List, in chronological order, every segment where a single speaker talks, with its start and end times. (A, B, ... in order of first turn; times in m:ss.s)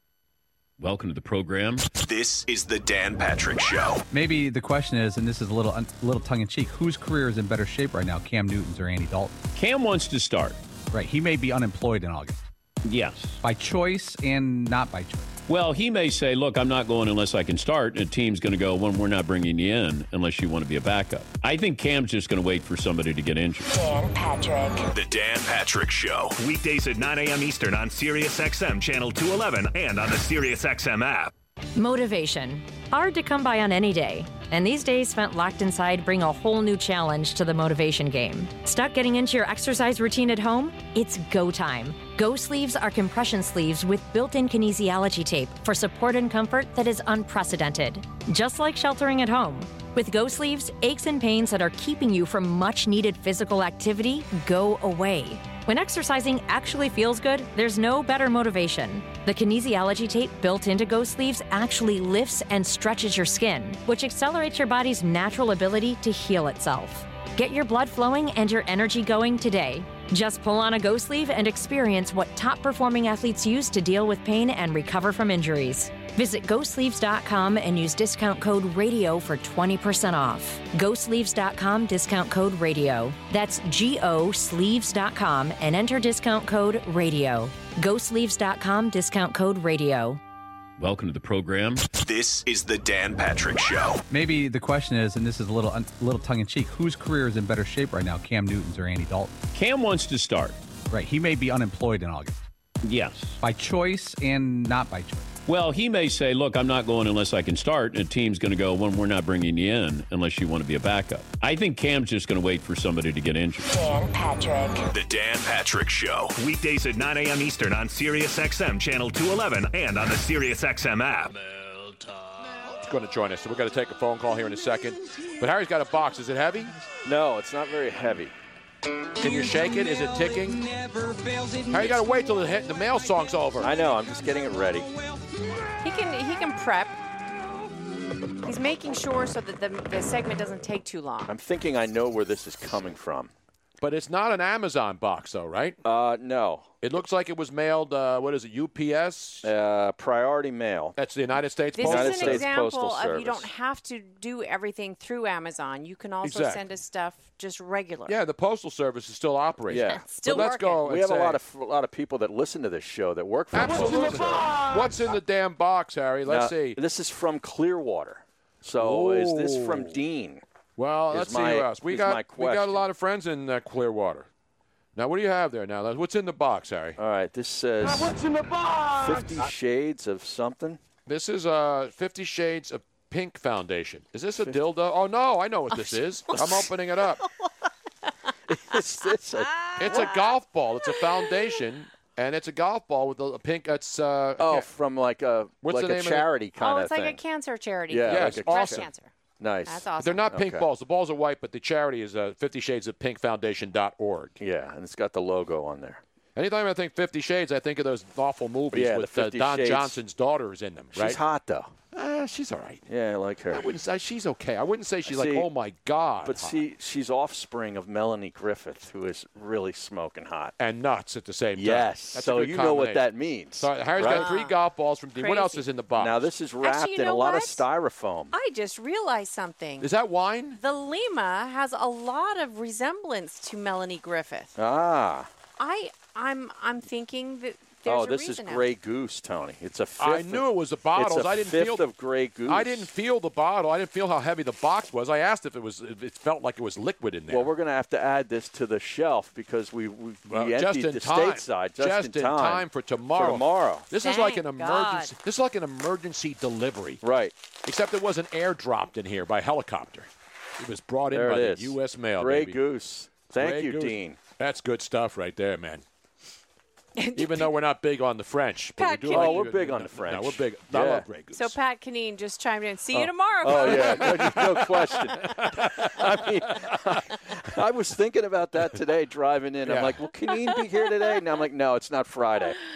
0:00.8-0:02.0 A
0:02.0-0:04.0 B
0:04.1-0:09.4 C
0:09.5-0:10.6 A
0:10.9-0:12.4 C
0:12.8-0:13.4 A
0:13.4-0:15.3 C
0:15.5-0:23.7 A
0:23.7-0:24.9 D
0:24.9-0:26.4 B
0:26.4-0:31.3 E
0:31.8-1:30.2 D
1:30.8-1:31.9 A
1:31.9-1:34.0 B
1:34.1-1:39.4 C
1:39.5-1:40.6 A
1:40.9-1:42.4 C
1:42.8-1:43.4 A
1:43.4-1:45.3 C
1:45.4-1:53.7 A
1:53.7-1:54.8 D
1:54.8-1:56.4 B
1:56.4-2:02.0 E
2:02.8-2:06.8 F
2:07.0-2:08.3 G
2:09.2-2:10.8 F
2:11.6-2:13.7 F
2:13.6-2:14.9 G
2:15.8-2:16.9 H
2:18.4-2:21.3 H
2:21.2-2:23.3 G
2:23.8-2:25.8 F
2:25.8-2:26.7 G
2:26.8-2:29.5 F
2:29.4-2:31.0 G
2:31.0-2:32.5 F
2:31.7-2:38.2 H
2:31.8-2:33.5 G
2:36.2-2:36.6 F
2:38.1-2:41.4 F
2:39.7-2:44.1 G
2:39.7-2:40.8 H
2:43.5-2:46.8 F
2:46.2-2:50.4 G
2:48.8-2:50.0 F
2:50.8-2:54.3 F
2:51.1-2:52.8 G
2:55.0-2:57.0 F
2:57.0-3:00.8 G
3:01.1-3:07.2 F
3:06.3-3:06.7 G
3:08.5-3:10.2 G
3:09.6-3:10.2 H
3:09.8-3:14.7 F
3:14.4-3:17.2 G
3:15.6-3:16.3 F
3:16.6-3:19.1 H
3:17.9-3:18.9 G
3:18.0-3:18.9 F
3:19.4-3:20.7 G
3:19.6-3:20.3 H
3:20.0-3:24.3 F
3:24.4-3:26.0 G
3:26.4-3:31.2 F
3:28.7-3:30.0 G
3:30.9-3:31.7 G
3:31.9-3:32.8 F
3:32.9-3:33.8 G
3:33.5-3:36.6 F
3:35.0-3:35.5 G
3:36.2-3:40.5 G
3:40.6-3:46.2 F
3:41.5-3:44.4 G
3:44.0-3:44.6 H
3:45.2-3:45.6 H
3:45.9-3:48.4 G
3:46.6-3:47.7 H
3:48.3-3:49.9 H
3:49.8-3:50.6 F
3:50.6-3:54.6 H
3:54.6-3:55.3 G
3:55.6-3:58.7 H
3:57.9-4:02.9 G
4:00.0-4:01.9 F
4:02.4-4:07.5 F
4:07.3-4:13.9 G
4:10.2-4:17.0 F
4:14.0-4:15.1 H
4:17.0-4:17.4 G
4:17.6-4:20.1 F
4:20.6-4:22.6 F
4:21.1-4:24.2 G
4:23.3-4:25.8 F
4:27.0-4:27.5 H
4:27.2-4:31.6 F
4:28.8-4:29.5 H
4:29.0-4:31.1 G
4:31.3-4:34.4 H
4:32.9-4:42.6 G
4:33.5-4:36.0 F
4:39.6-4:40.0 F